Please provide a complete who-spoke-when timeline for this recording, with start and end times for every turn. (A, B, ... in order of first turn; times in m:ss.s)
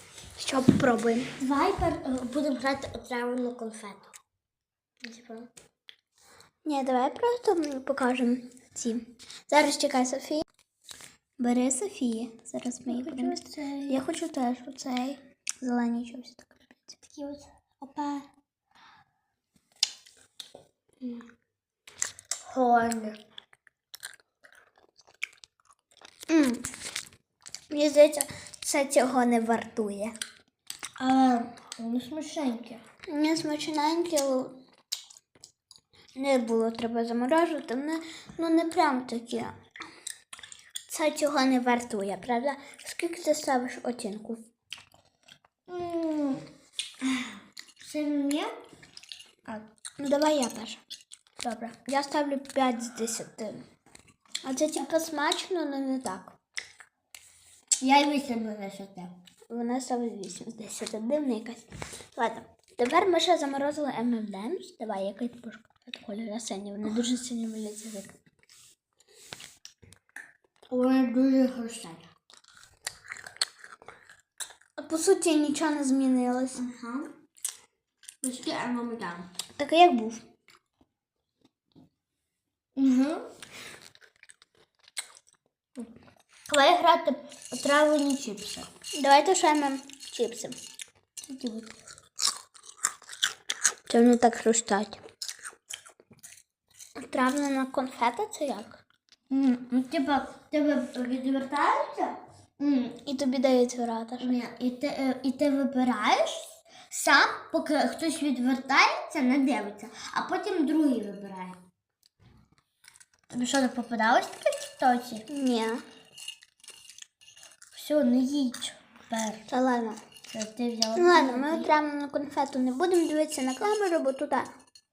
0:00.4-0:01.3 A
0:01.4-0:04.1 B
0:05.0-0:05.5 B
0:06.6-0:10.4 A
0:11.4-0:17.0 A
0:12.9-0:14.0 B
0:17.1-0:18.3 B
0:22.4-0:23.2 B
0:26.3-0:26.7 A
0:27.7-0:30.2 A
0:31.0-0:32.8 B
0:33.1-0:34.6 A
0:36.2-0:39.6 A
0:40.9-0:44.4 A
0:45.7-0:46.4 B
0:47.0-0:48.6 B
0:50.0-0:50.8 A
0:51.4-0:51.7 B
0:51.7-0:53.6 A
0:54.4-0:56.4 A
0:57.8-0:59.2 B
0:59.5-1:01.6 A
1:02.2-1:08.2 A
1:10.7-1:12.1 B
1:14.8-1:16.6 A
1:16.6-1:17.1 B
1:18.2-1:19.3 B
1:19.6-1:20.2 A
1:22.8-1:23.2 B
1:26.5-1:28.7 B
1:29.0-1:30.6 A
1:31.3-1:31.7 B
1:33.9-1:35.0 A
1:37.0-1:38.8 A
1:39.3-1:43.0 B
1:43.0-1:44.4 A
1:44.2-1:51.6 B
1:53.3-1:55.3 B
1:55.3-1:55.8 A
1:57.7-1:59.4 B
1:59.5-2:00.0 A
2:00.3-2:01.7 B
2:01.0-2:04.5 A